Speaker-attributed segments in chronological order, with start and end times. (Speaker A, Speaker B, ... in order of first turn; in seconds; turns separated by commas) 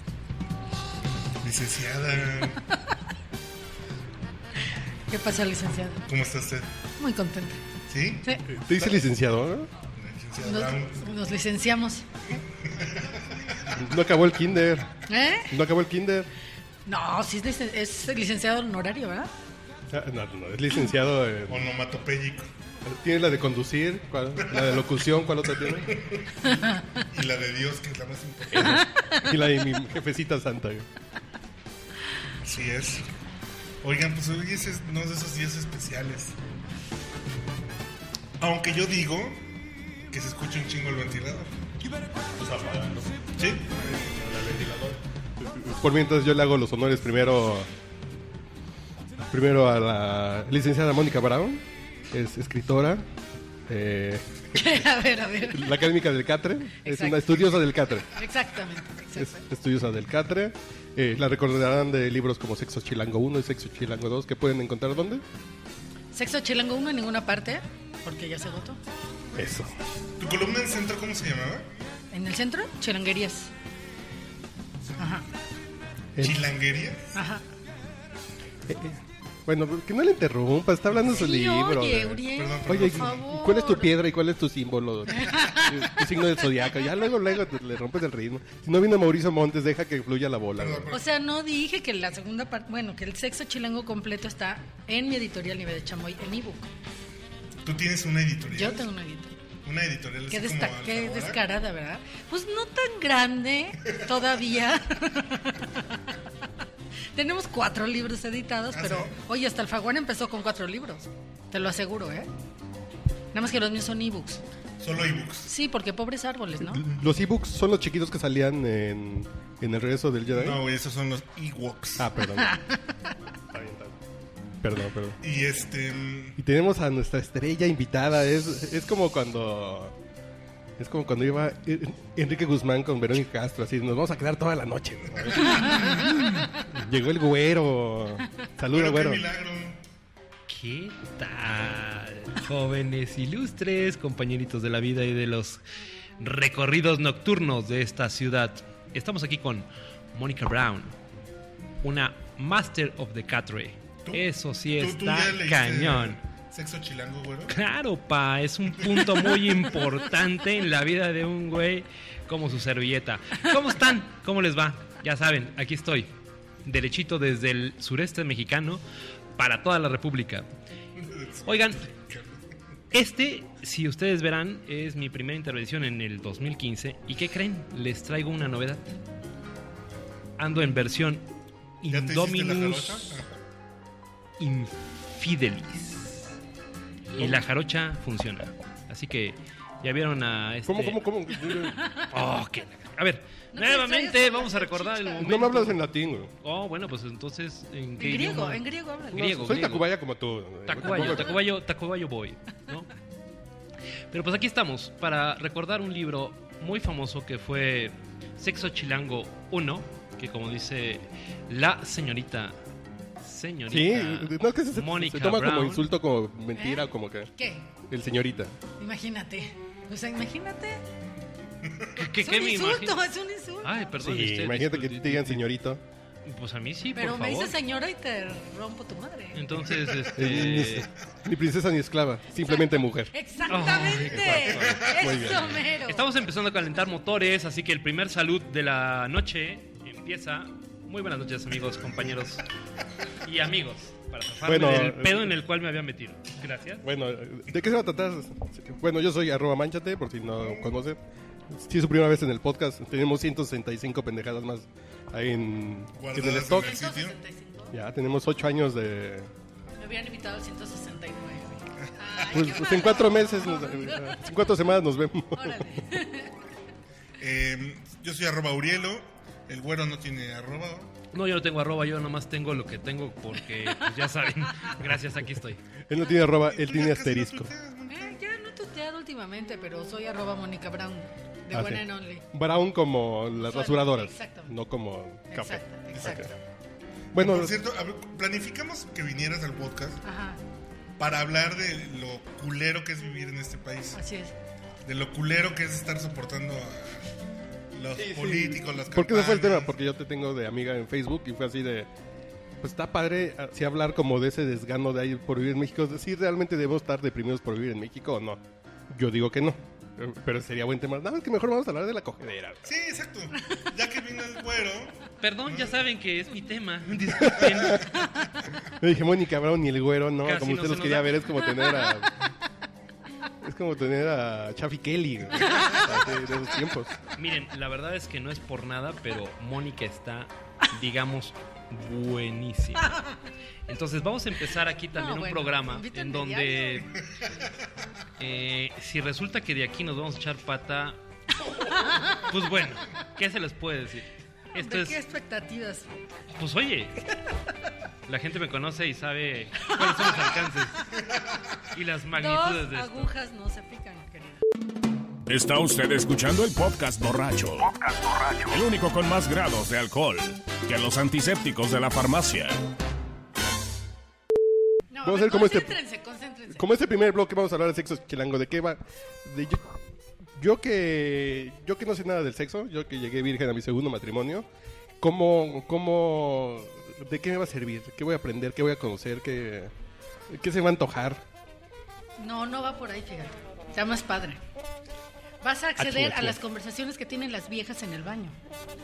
Speaker A: 1.4-2.6, Speaker B: 5.1-6.0, Speaker A: 6.1-6.7, Speaker B: 7.0-7.6, Speaker A: 7.9-8.9, Speaker C: 8.4-9.7, Speaker A: 9.9-11.0, Speaker B: 10.4-12.1, Speaker A: 12.3-13.8, Speaker C: 13.7-14.9, Speaker B: 15.1-15.6, Speaker C: 15.5-16.3, Speaker B: 16.9-19.3, Speaker C: 19.9-21.7, Speaker A: 21.5-22.5, Speaker C: 22.8-25.9, Speaker A: 24.4-24.8, Speaker A: 25.6-28.8, Speaker B: 26.4-27.0, Speaker C: 28.5-30.9, Speaker B: 28.6-29.4, Speaker A: 32.4-33.1, Speaker A: 33.8-36.4, Speaker A: 38.4-39.5, Speaker A: 40.1-41.5, Speaker A: 42.4-45.0, Speaker C: 45.4-47.7, Speaker C: 49.2-53.0, Speaker C: 53.7-54.7, Speaker B: 54.5-55.9, Speaker C: 55.5-58.1, Speaker B: 56.8-57.5, Speaker B: 58.1-59.4, Speaker C: 59.1-65.2, Speaker B: 66.1-68.8, Speaker C: 69.3-69.7, Speaker A: 70.2-71.7, Speaker B: 72.1-73.5, Speaker B: 75.0-75.2, Speaker C: 76.1-76.4, Speaker A: 76.2-77.1, Speaker B: 77.1-77.4, Speaker C: 78.7-90.9, Speaker B: 81.0-84.0, Speaker A: 82.3-83.2, Speaker B: 85.1-86.6, Speaker A: 90.6-91.0, Speaker B: 90.9-96.7, Speaker A: 97.6-98.9, Speaker B: 98.5-99.3, Speaker A: 99.6-101.4, Speaker B: 100.3-106.0, Speaker B: 107.1-112.3, Speaker A: 108.7-109.1, Speaker B: 113.3-114.4, Speaker A: 114.8-115.5, Speaker B: 115.5-116.8, Speaker C: 116.6-120.6, Speaker A: 120.3-122.1, Speaker C: 122.0-122.6, Speaker B: 122.4-123.0, Speaker C: 123.5-124.0, Speaker C: 124.6-125.2, Speaker A: 125.2-126.4, Speaker C: 126.4-129.9, Speaker C: 130.8-139.2, Speaker A: 135.1-136.4, Speaker B: 135.4-136.1, Speaker A: 138.7-139.8, Speaker D: 140.5-145.6, Speaker D: 146.2-150.9, Speaker D: 151.8-156.2, Speaker A: 154.1-157.5, Speaker D: 157.5-166.1, Speaker D: 166.6-168.8, Speaker D: 169.4-170.5, Speaker A: 170.9-172.4, Speaker D: 171.4-171.8, Speaker D: 172.9-178.8, Speaker D: 180.4-181.3, Speaker D: 181.8-183.2, Speaker A: 181.9-183.3, Speaker D: 184.4-186.3, Speaker B: 187.1-187.4, Speaker D: 187.2-191.0, Speaker C: 190.7-191.8, Speaker B: 191.5-192.1, Speaker D: 192.1-195.8, Speaker B: 193.5-195.3, Speaker C: 195.2-196.3, Speaker D: 196.4-199.9, Speaker B: 198.0-199.2, Speaker C: 199.1-201.4, Speaker D: 200.7-202.9, Speaker B: 201.0-201.3, Speaker D: 204.1-212.6, Speaker D: 213.2-215.9, Speaker C: 213.7-217.3, Speaker B: 216.5-217.7, Speaker C: 217.8-218.5, Speaker B: 218.8-220.8, Speaker A: 221.6-221.9, Speaker D: 221.9-223.0, Speaker B: 222.2-223.7, Speaker D: 223.6-225.4, Speaker C: 224.0-225.8, Speaker D: 226.2-227.6, Speaker B: 226.9-229.6, Speaker D: 229.3-230.9, Speaker A: 229.6-230.2, Speaker C: 230.1-233.1, Speaker B: 232.4-236.1, Speaker D: 233.5-242.4, Speaker C: 234.1-235.6, Speaker A: 234.5-234.7, Speaker A: 241.6-242.2, Speaker D: 243.2-246.8, Speaker C: 244.4-245.3, Speaker C: 246.8-251.0, Speaker C: 251.5-256.8, Speaker A: 255.9-257.2, Speaker B: 256.5-257.7, Speaker C: 257.7-259.3, Speaker B: 259.8-264.2, Speaker A: 262.1-262.5, Speaker C: 262.3-265.7, Speaker B: 265.3-266.3, Speaker A: 267.2-270.9, Speaker D: 271.1-275.6, Speaker C: 275.9-277.5, Speaker A: 276.3-278.2, Speaker B: 277.9-282.2, Speaker C: 281.5-286.3, Speaker B: 283.3-284.5, Speaker B: 285.3-286.4, Speaker C: 287.1-287.6, Speaker A: 287.2-290.0, Speaker B: 290.0-290.4, Speaker A: 291.0-294.0, Speaker B: 293.9-294.3, Speaker A: 294.8-297.0, Speaker A: 297.7-299.7, Speaker C: 297.9-301.9, Speaker C: 302.6-312.6, Speaker A: 312.6-315.8, Speaker D: 315.2-318.2, Speaker C: 317.2-317.8, Speaker A: 317.4-317.7, Speaker C: 318.8-322.3, Speaker D: 320.2-321.3, Speaker C: 323.4-327.0, Speaker B: 325.4-326.0, Speaker D: 327.1-333.0, Speaker D: 333.7-336.9, Speaker B: 334.9-336.9, Speaker D: 338.2-341.0, Speaker B: 341.5-342.2, Speaker D: 342.1-345.0, Speaker B: 344.5-345.9, Speaker D: 346.3-347.0, Speaker D: 348.1-350.8, Speaker B: 349.6-350.4, Speaker D: 351.7-353.1, Speaker B: 352.1-354.4, Speaker E: 355.2-362.6, Speaker B: 364.9-366.7, Speaker C: 365.0-365.8, Speaker C: 366.5-369.7, Speaker C: 370.4-374.5, Speaker C: 375.0-379.7, Speaker C: 380.3-381.2, Speaker B: 382.2-384.4, Speaker B: 385.4-388.3, Speaker C: 385.8-386.4